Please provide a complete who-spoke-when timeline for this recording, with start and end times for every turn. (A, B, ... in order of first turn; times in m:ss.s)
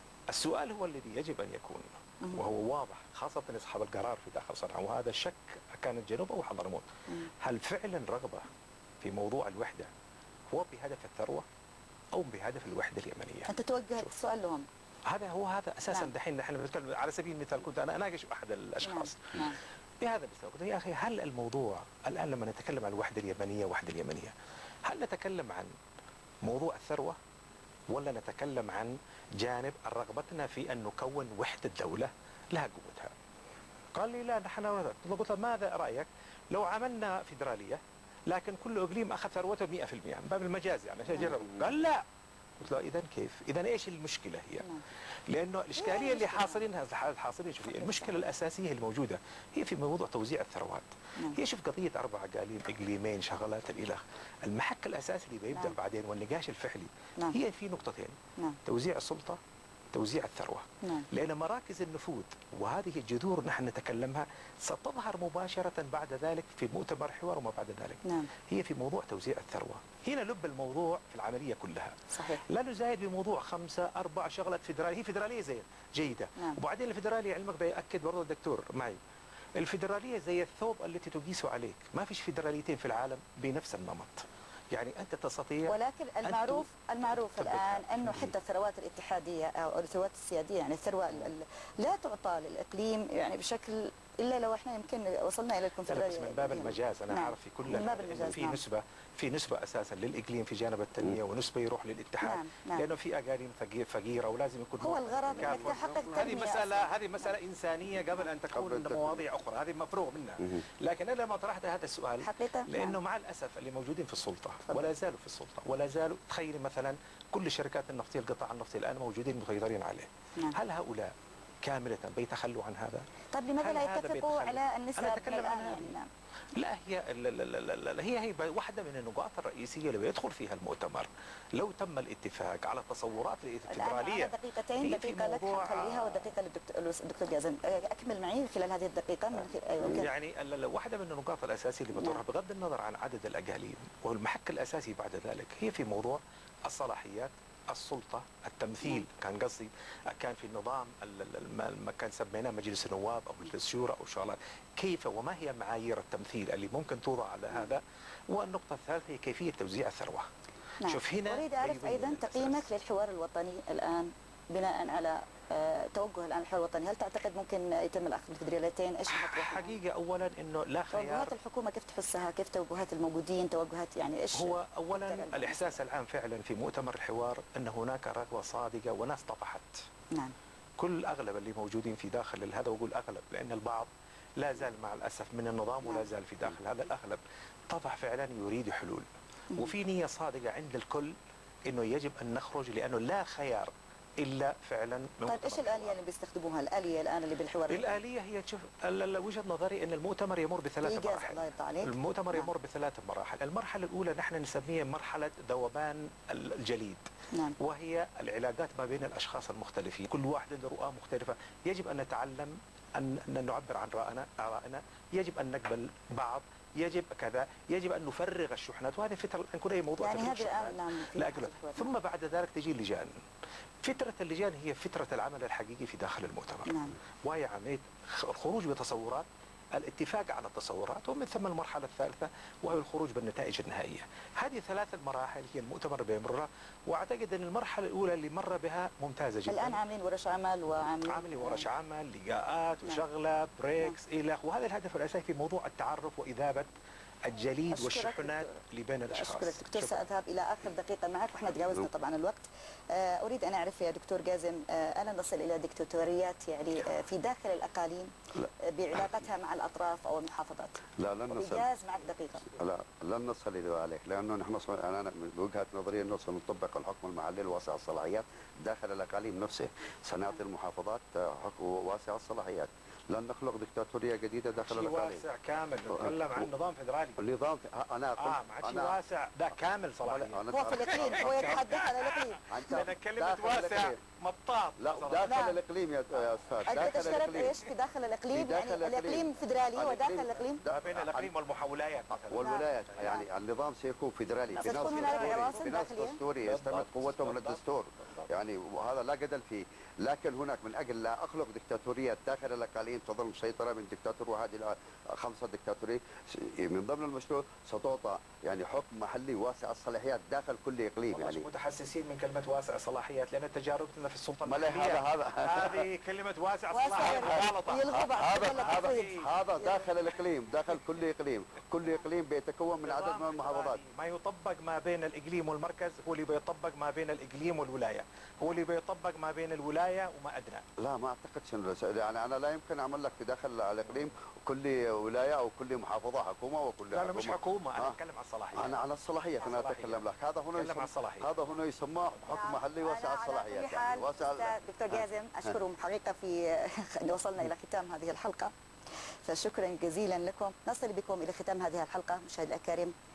0:00.3-0:06.9 A
0:07.4-0:08.5 A
0:09.0-0:09.9 A
0:10.5-0:11.4 A
0:12.1-0:14.1 A
0:13.5-0:14.7 B
0:15.1-0:19.4 A
0:18.8-0:19.6 B
0:20.0-0:24.3 A
0:24.8-0:25.7 A
0:26.4-0:27.2 A
0:27.9-0:33.1 A
0:33.9-0:42.0 A
0:41.1-0:41.3 B
0:42.6-0:44.6 A
0:45.3-0:59.4 A
0:45.8-0:46.6 B
0:59.9-1:19.0 A
1:00.8-1:01.1 B
1:08.0-1:08.3 B
1:12.1-1:12.4 B
1:19.6-1:25.7 A
1:25.7-1:38.6 B
1:26.2-1:28.3 A
1:35.8-2:03.0 A
1:42.2-1:42.9 B
1:44.8-1:47.3 B
1:48.5-1:49.2 C
1:52.2-1:53.0 B
2:03.3-2:06.1 B
2:03.6-2:05.9 A
2:06.6-2:16.3 A
2:13.7-2:20.1 B
2:19.9-2:40.3 A
2:21.9-2:22.2 B
2:40.8-2:49.8 B
2:40.8-2:42.6 A
2:49.1-2:51.3 A
2:50.9-2:55.8 B
2:54.3-2:59.8 A
3:00.8-3:11.2 A
3:05.8-3:06.1 B
3:11.7-3:15.9 A
3:15.2-3:18.0 B
3:17.7-3:43.2 A
3:20.8-3:22.5 B
3:40.0-3:41.9 B
3:43.8-3:59.8 A
3:46.6-3:47.0 B
3:59.5-4:01.6 B
4:01.0-4:06.7 A
4:07.2-4:10.0 A
4:07.7-4:08.6 B
4:09.1-4:22.5 B
4:21.0-4:21.7 C
4:22.5-4:35.2 C
4:34.6-4:37.2 A
4:37.2-4:39.0 C
4:38.2-4:45.5 A
4:40.0-4:41.7 C
4:40.5-4:42.8 B
4:42.5-4:44.0 C
4:44.8-4:47.6 C
4:45.2-4:45.6 B
4:46.6-4:50.6 B
4:48.3-4:51.3 C
4:50.7-4:53.1 A
4:52.3-5:11.4 C
4:52.4-4:53.2 B
4:54.5-4:55.8 A
4:54.6-4:56.2 B
4:56.4-4:58.3 A
5:11.1-5:19.3 A
5:14.4-5:15.8 C
5:16.7-5:19.9 B
5:17.0-5:23.8 C
5:22.8-5:30.6 A
5:30.8-5:38.0 C
5:36.9-5:38.8 A
5:38.5-5:45.0 C
5:39.4-5:40.0 A
5:40.6-5:41.3 A
5:42.2-5:48.5 B
5:49.2-5:52.9 B